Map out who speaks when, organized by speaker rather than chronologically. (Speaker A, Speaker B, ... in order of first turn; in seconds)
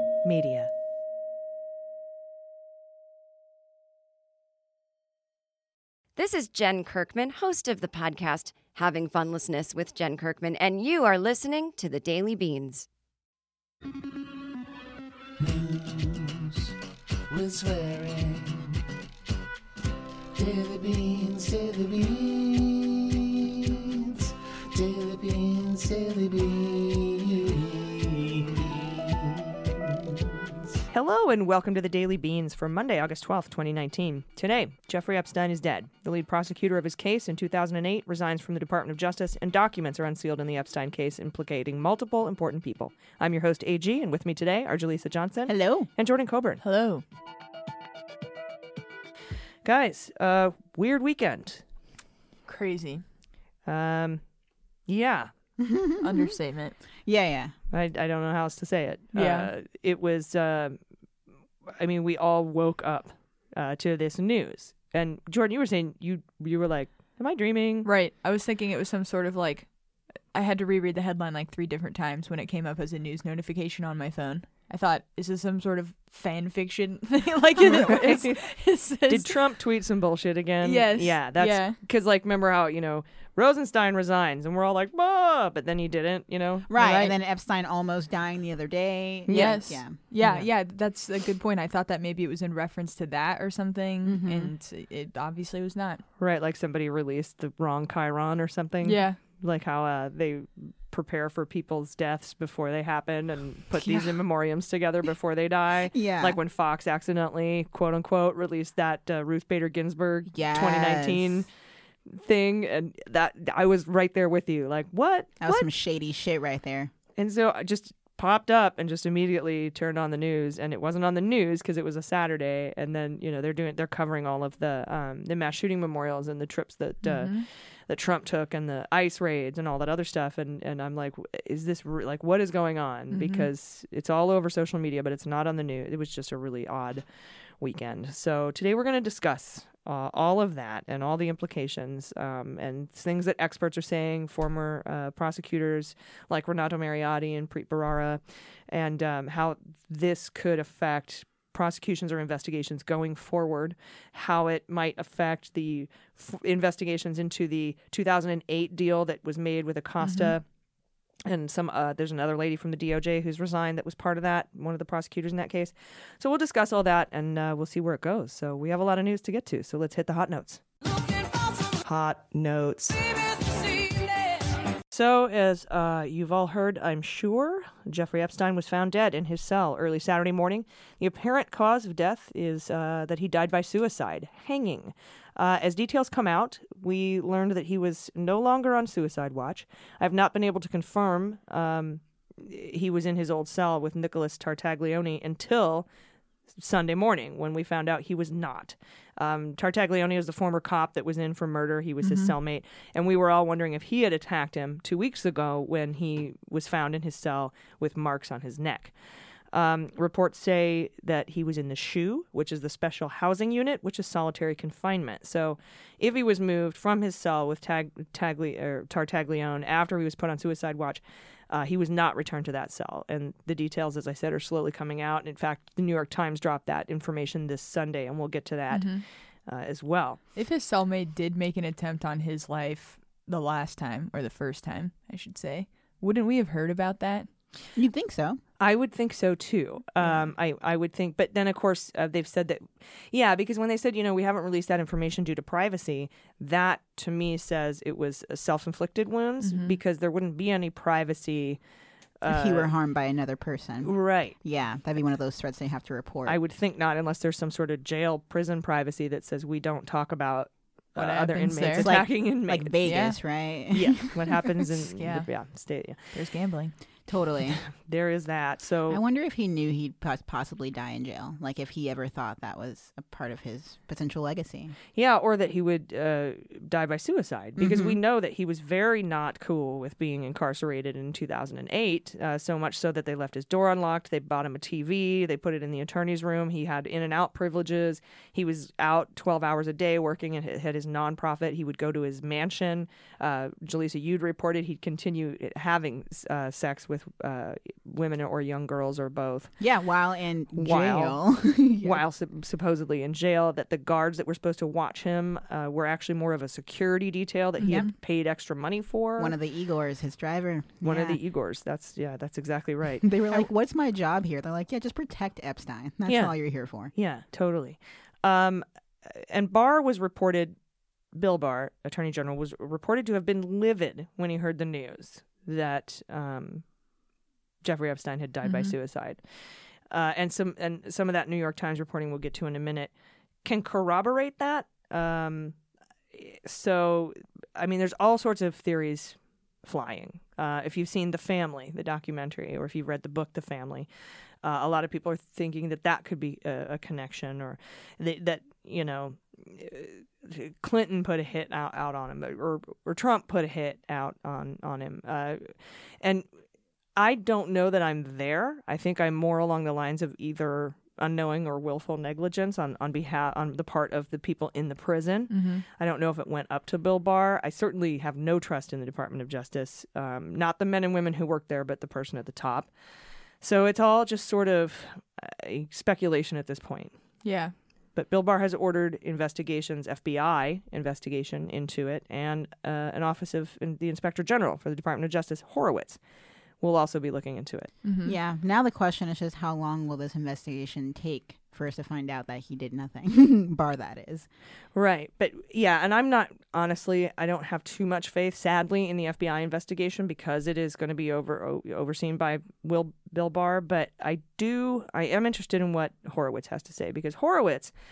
Speaker A: 0.2-0.7, 30.9-46.6, 49.6-51.6, 53.6-54.2, 54.9-55.3, 57.7-60.8, 61.7-67.9, 77.6-87.2, 89.2-89.7, 90.2-90.5, 96.2-111.5, 112.1-115.7, 117.2-137.0, 137.6-160.5, 161.2-174.4, 174.9-195.9, 196.5-208.9, 209.5-230.2, 238.6-251.6, 252.2-252.7, 253.8-254.3, 256.2-263.0, 263.7-266.2, 267.6-269.0, 274.9-299.6, 300.5-309.3, 310.8-313.5, 316.1-320.6, 321.1-326.7, 327.6-335.6, 336.1-343.9, 344.4-356.3, 356.9-372.7, 373.3-377.2, 377.9-386.0, 386.6-387.7, 394.7-407.7
Speaker B: 6.2-12.9
Speaker C: 15.4-16.7, 17.3-18.7, 20.4-23.0, 24.0-29.4
Speaker D: 45.5-45.9, 55.6-56.3, 57.0-57.5, 86.7-90.0, 94.0-94.5, 103.8-104.2, 105.9-106.4, 110.3-111.4, 115.4-116.9, 237.7-238.4, 252.2-256.4, 261.7-264.5, 267.1-267.6, 268.9-274.8, 277.6-278.0, 299.6-302.0, 309.2-311.2, 313.0-316.9, 388.0-394.3
Speaker E: 46.6-47.0, 52.5-53.0, 56.0-56.8, 59.1-59.5, 67.8-79.4, 80.6-81.8, 89.3-96.0, 98.8-99.2, 127.0-127.4, 133.1-133.5, 160.0-160.3, 202.0-202.3, 228.7-229.0, 230.3-237.3, 249.4-249.8, 260.9-262.1, 262.8-263.2, 264.9-266.7, 307.6-307.9, 328.4-328.7, 365.3-365.6, 377.2-377.5, 387.8-388.1